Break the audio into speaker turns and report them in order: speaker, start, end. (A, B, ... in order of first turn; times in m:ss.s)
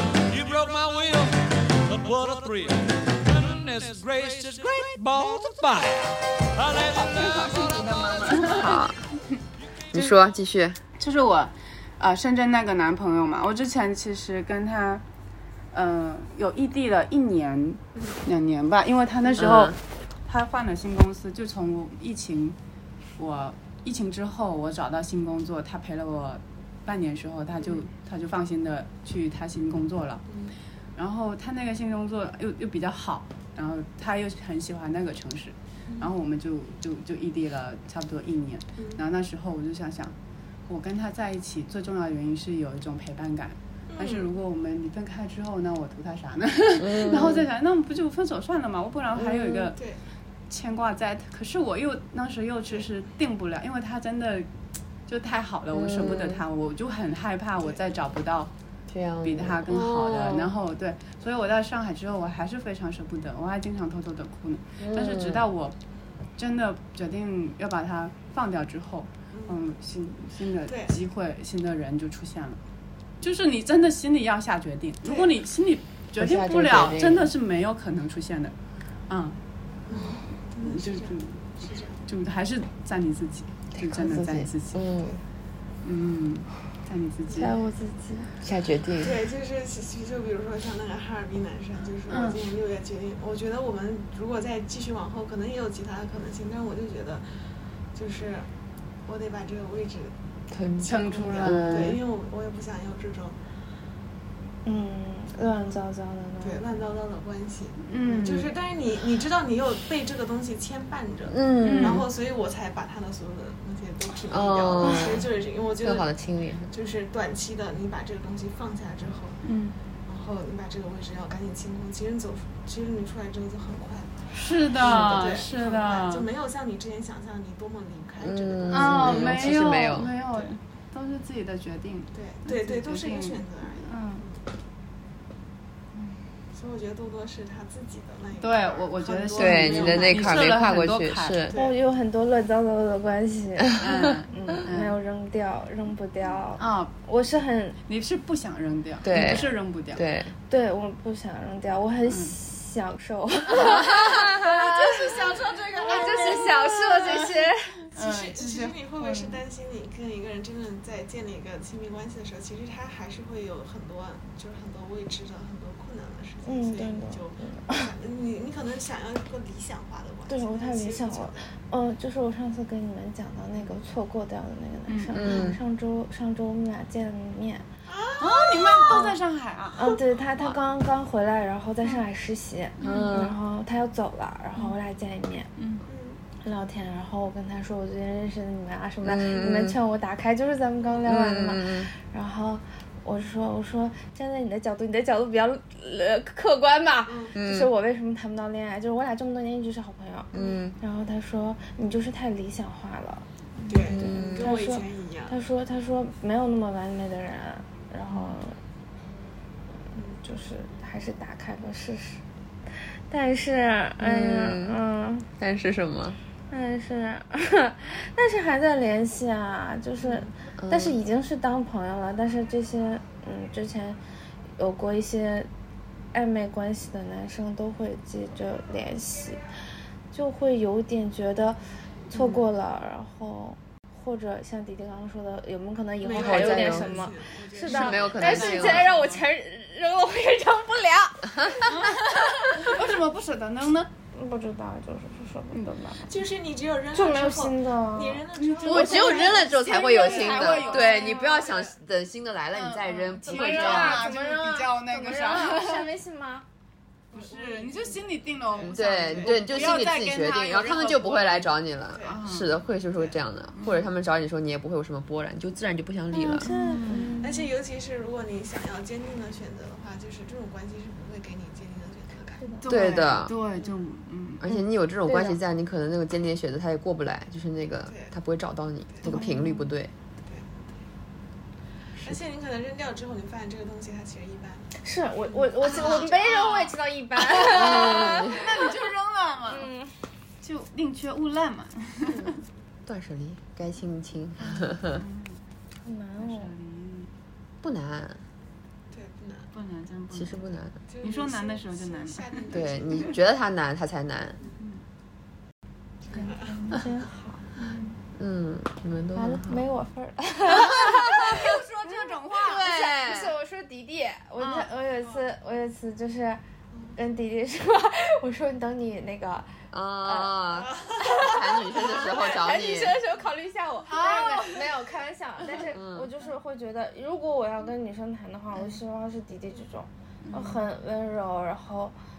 0:00.3-0:08.8 A
0:07.4-0:08.8 B
0:08.5-0:09.0 C
0:09.9-0:10.8 C
0:11.0-0:15.0 B
0:15.7-0:22.6 B
0:19.2-0:19.5 D
0:19.4-0:19.8 C
0:23.2-0:30.3 B
0:27.6-0:27.8 D
0:30.3-0:30.5 D
0:31.0-0:40.1 B
0:38.8-0:39.0 D
0:40.6-0:49.8 B
0:43.9-0:44.3 D
0:46.8-0:47.4 C
0:49.1-0:49.7 C
0:50.5-0:54.5 B
0:55.1-0:58.5 B
0:55.7-0:56.4 C
0:58.9-1:00.5 C
0:59.2-1:05.7 B
1:04.8-1:05.5 C
1:06.3-1:12.6 B
1:09.3-1:09.6 D
1:10.6-1:11.0 D
1:13.2-1:18.5 B
1:15.0-1:15.3 D
1:16.2-1:17.3 C
1:19.1-1:19.4 B
1:19.9-1:22.0 D
1:19.9-1:24.8 B
1:23.8-1:25.2 C
1:25.8-1:27.6 B
1:27.3-1:28.3 E
1:28.4-1:29.2 C
1:29.0-1:37.2 D
1:32.1-1:32.4 B
1:37.9-1:38.5 D
1:39.0-1:40.1 D
1:40.5-1:42.0 C
1:40.8-1:43.4 D
1:40.8-1:42.0 B
1:44.6-1:46.6 E
1:46.4-1:56.1 D
1:47.9-1:48.5 B
1:51.3-1:52.0 C
1:51.6-1:52.0 B
1:54.3-1:55.2 C
1:55.8-1:56.7 C
1:56.7-1:59.4 D
1:59.4-1:59.8 B
2:00.1-2:10.5 D
2:04.3-2:06.3 B
2:08.2-2:10.1 C
2:08.7-2:14.2 B
2:12.1-2:14.4 D
2:15.9-2:16.2 B
2:16.5-2:20.5 D
2:18.4-2:21.5 B
2:19.3-2:21.6 C
2:21.5-2:21.8 D
2:21.5-2:27.8 E
2:23.8-2:25.0 B
2:26.6-2:26.9 B
2:27.9-2:30.0 B
2:29.0-2:30.3 C
2:30.5-2:35.2 E
2:32.1-2:32.4 B
2:33.5-2:37.3 B
2:33.8-2:37.2 D
2:35.8-2:37.9 E
2:37.9-2:39.4 B
2:37.9-2:51.4 D
2:46.4-2:47.9 E
2:50.3-2:57.6 E
2:54.9-2:55.4 B
2:55.1-2:55.6 C
2:57.9-2:59.0 D
2:58.2-2:59.9 B
2:58.9-2:59.2 E
2:59.8-3:05.5 E
3:02.8-3:03.3 B
3:02.8-3:03.3 C
3:05.6-3:05.8 B
3:05.9-3:06.2 D
3:06.4-3:23.3 E
3:09.0-3:09.8 C
3:11.0-3:11.9 C
3:17.0-3:17.3 D
3:17.3-3:17.7 C
3:20.3-3:20.8 C
3:23.6-3:24.0 B
3:23.7-3:25.4 D
3:23.9-3:28.6 E
3:24.0-3:24.5 C
3:30.1-3:35.3 E
3:34.0-3:34.8 C
3:35.4-3:36.2 C
3:36.5-3:44.0 E
3:40.0-3:40.3 D
3:40.6-3:41.0 C
3:44.6-3:45.5 E
3:46.1-3:49.4 E
3:50.1-4:01.7 E
3:52.1-3:52.5 D
3:56.0-3:59.2 D
3:56.1-3:56.9 C
3:57.6-3:58.9 C
3:57.7-3:59.1 B
4:01.4-4:01.7 C
4:01.7-4:03.9 B
4:04.1-4:06.1 E
4:06.0-4:09.5 D
4:06.9-4:08.2 E
4:08.4-4:11.2 B
4:08.6-4:14.0 C
4:08.9-4:11.4 E
4:11.1-4:11.7 D
4:12.5-4:15.9 B
4:13.2-4:16.4 E
4:17.1-4:19.9 D
4:17.1-4:21.5 B
4:18.6-4:26.5 C
4:21.9-4:22.2 D
4:22.0-4:22.6 B
4:23.5-4:23.9 B
4:26.2-4:27.4 E
4:26.3-4:27.2 B
4:27.2-4:32.6 D
4:32.4-4:32.6 E
4:32.6-4:34.4 B
4:32.6-4:33.4 C
4:34.4-4:39.9 C
4:34.4-4:35.4 E
4:37.8-4:38.1 D
4:38.9-4:39.2 D
4:39.0-4:39.6 B
4:39.1-4:39.5 E
4:40.2-4:40.7 D
4:42.0-4:44.7 D
4:44.8-4:48.4 E
4:45.3-4:46.7 D
4:45.6-4:46.7 B
4:47.4-4:49.7 B
4:47.5-4:48.5 C
4:49.5-4:50.0 E
4:50.4-4:52.3 B
4:52.8-4:55.0 C
4:54.4-4:55.4 B
4:55.8-4:56.5 E
4:56.2-4:57.1 B
4:57.6-4:58.2 C
4:58.9-4:59.5 D
4:59.5-5:03.1 B
5:00.1-5:00.7 C
5:00.9-5:03.2 D
5:02.5-5:04.4 C
5:06.0-5:06.7 D
5:06.1-5:06.8 B
5:06.1-5:07.4 E
5:07.6-5:08.0 B
5:08.2-5:09.6 C
5:09.1-5:11.4 E
5:10.5-5:12.7 B
5:12.4-5:13.3 C
5:12.6-5:16.4 E
5:14.4-5:14.7 B
5:16.7-5:17.0 D
5:17.0-5:20.4 E
5:19.7-5:23.0 C
5:20.6-5:21.1 D
5:21.0-5:32.0 E
5:23.9-5:24.6 B
5:25.7-5:26.1 C
5:30.2-5:30.6 B